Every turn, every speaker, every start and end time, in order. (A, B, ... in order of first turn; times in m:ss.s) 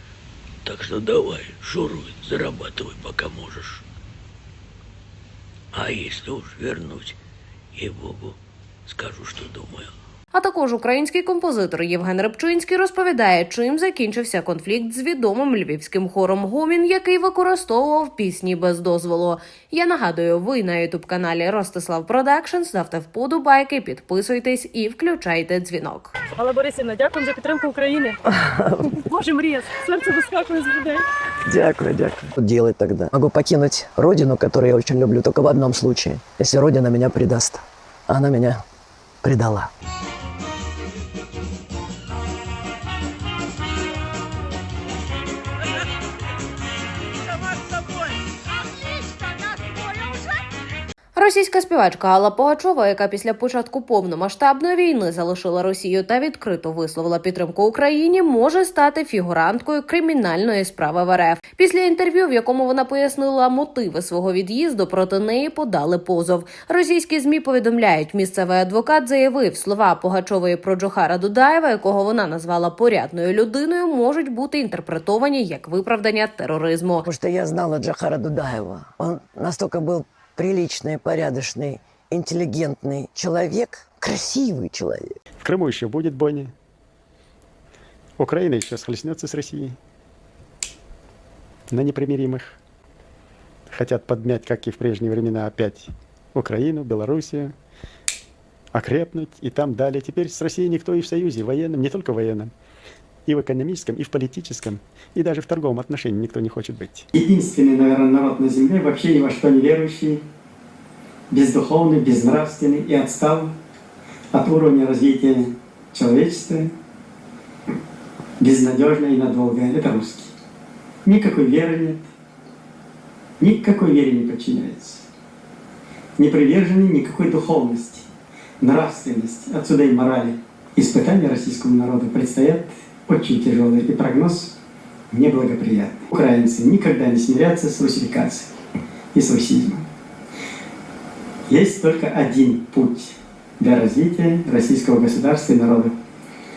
0:00.6-0:03.8 A
0:05.7-0:07.2 A
0:07.7-0:09.9 A
0:10.3-0:26.1 B
0:26.4-0:28.1 C
0:29.0-0:31.0 C
0:31.4-0:38.6 D
0:39.2-0:39.7 D
0:51.1-1:17.0 B
1:17.0-1:25.1 D
1:25.4-1:26.5 E
1:28.2-1:29.8 E
1:31.7-1:32.6 E
1:33.7-1:37.5 E
1:38.7-1:42.5 E
1:43.2-1:47.1 E
1:47.1-1:50.2 F
1:51.3-1:53.5 F
1:54.3-1:56.7 F
1:58.4-2:00.3 F
2:01.0-2:02.1 F
2:03.4-2:05.1 F
2:06.2-2:08.1 F
2:08.6-2:14.5 F
2:15.1-2:18.5 F
2:19.1-2:19.8 F
2:21.5-2:25.9 F